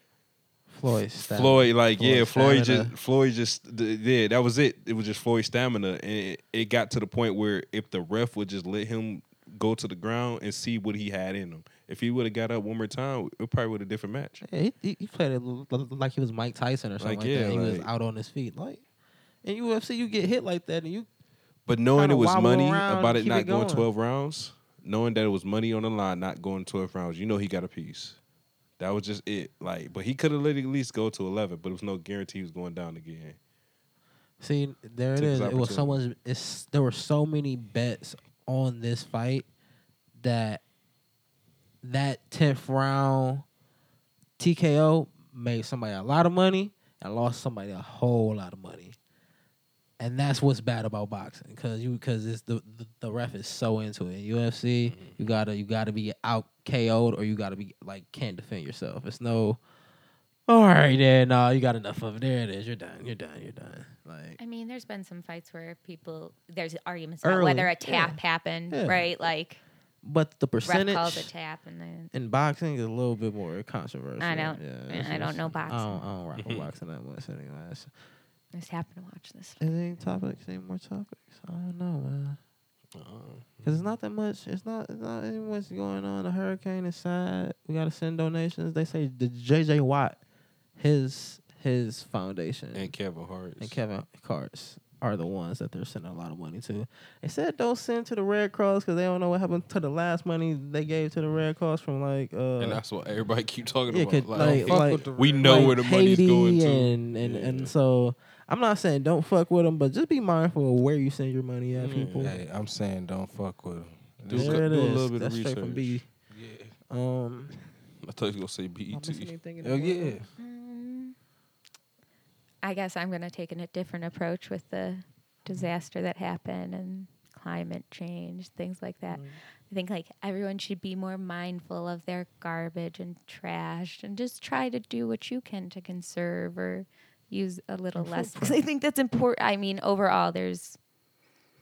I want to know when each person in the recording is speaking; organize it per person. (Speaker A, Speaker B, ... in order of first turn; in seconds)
Speaker A: 0.7-2.9, 14.4-18.8, 19.4-21.1, 21.9-23.9, 34.4-39.5, 40.2-40.6, 41.8-43.5, 44.4-49.0, 50.0-59.6, 60.5-64.4, 67.2-69.1, 70.0-71.3, 72.1-77.9, 79.6-82.4, 83.6-90.2, 90.8-92.9, 93.6-102.8, 103.9-112.4, 114.3-116.1, 116.9-117.5, 118.9-120.2, 129.1-129.4, 137.9-138.6
Speaker B: 1.3-14.4, 17.0-17.9, 21.7-28.2, 28.8-33.4, 35.2-36.0, 54.9-55.2, 76.4-76.7, 83.0-83.9, 92.8-93.8, 102.6-107.7, 111.8-112.4, 114.3-116.0, 118.0-119.3
Speaker C: 64.4-69.6, 70.7-72.1, 74.2-76.0, 78.5-79.7, 120.4-121.2, 122.6-140.8
Speaker D: 104.4-105.8, 112.2-114.6, 116.3-116.7, 119.6-120.2